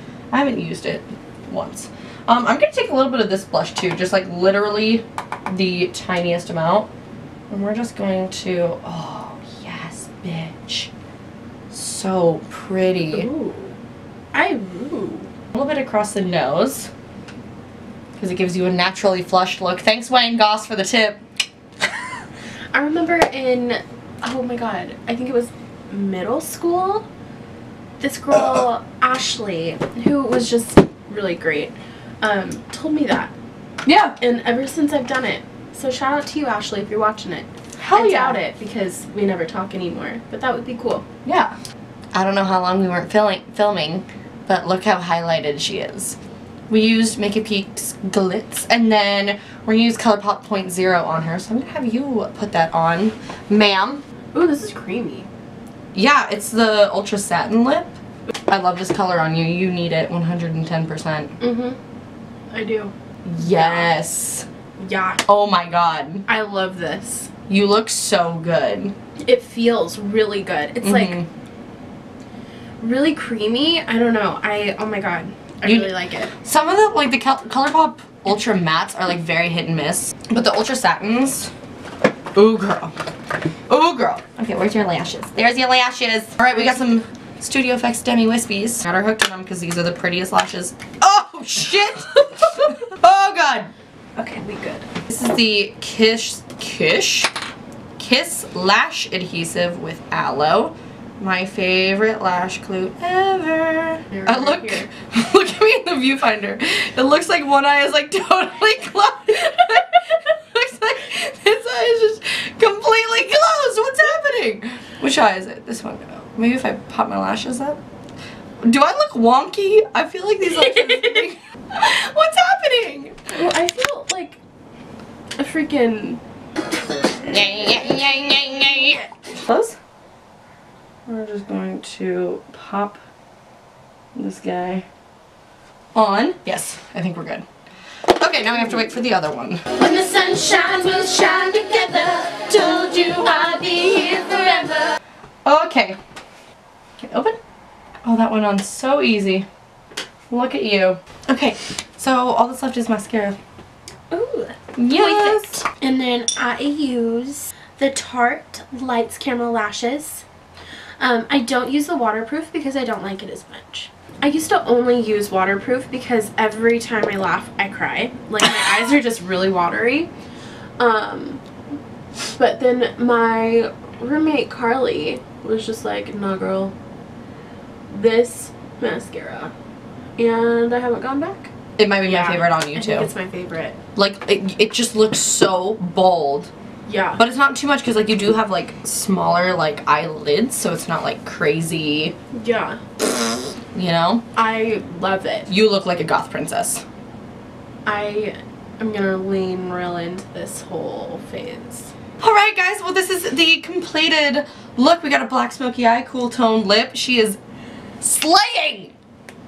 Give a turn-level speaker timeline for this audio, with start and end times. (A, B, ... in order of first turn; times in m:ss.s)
0:00.3-0:06.9 A
0:07.5-0:10.9 A
0:11.7-0:13.3 A
0:13.1-0:13.7 B
0:14.3-0:15.3 B
0:15.5-0:16.9 A
0:18.2-0:21.2 A
0:22.7-0:27.1 B
0:28.0-0:33.3 B
0:28.3-0:28.7 A
0:33.8-0:34.2 A
0:34.2-0:41.0 B
0:37.8-0:38.4 A
0:41.2-0:41.6 A
0:42.1-0:46.2 A
0:46.7-0:54.0 A
0:54.3-0:55.3 B
0:55.9-0:58.0 A
0:58.5-1:01.4 A
1:01.4-1:01.8 B
1:02.5-1:03.9 B
1:03.2-1:04.5 A
1:04.8-1:05.2 B
1:05.3-1:06.3 A
1:06.3-1:07.3 B
1:07.5-1:09.0 A
1:09.2-1:11.2 B
1:10.8-1:11.3 A
1:12.8-1:16.3 B
1:15.6-1:15.9 A
1:16.4-1:21.5 A
1:22.4-1:22.9 A
1:23.7-1:33.7 A
1:34.2-1:34.9 B
1:35.1-1:37.3 A
1:38.0-1:57.8 A
1:44.1-1:44.8 B
1:58.6-2:03.2 A
2:03.3-2:04.4 B
2:05.4-2:06.2 B
2:07.2-2:09.8 A
2:08.6-2:09.0 B
2:11.1-2:13.0 A
2:14.2-2:14.8 A
2:16.0-2:17.4 A
2:18.2-2:19.6 A
2:19.8-2:25.0 B
2:25.4-2:26.0 A
2:27.0-2:27.4 A
2:28.0-2:29.5 A
2:30.3-2:33.4 A
2:34.1-2:40.2 B
2:34.8-2:35.6 A
2:41.0-2:50.1 B
2:50.8-2:51.4 B
2:52.4-2:56.7 B
2:57.9-2:59.5 B
3:00.2-3:01.5 B
3:01.8-3:03.1 A
3:02.0-3:03.8 B
3:04.0-3:06.5 A
3:06.9-3:07.2 B
3:07.2-3:12.2 A
3:12.3-3:12.8 B
3:13.8-3:14.2 A
3:14.4-3:15.5 B
3:15.5-3:16.8 A
3:17.8-3:21.9 B
3:22.2-3:27.4 A
3:28.0-3:28.9 A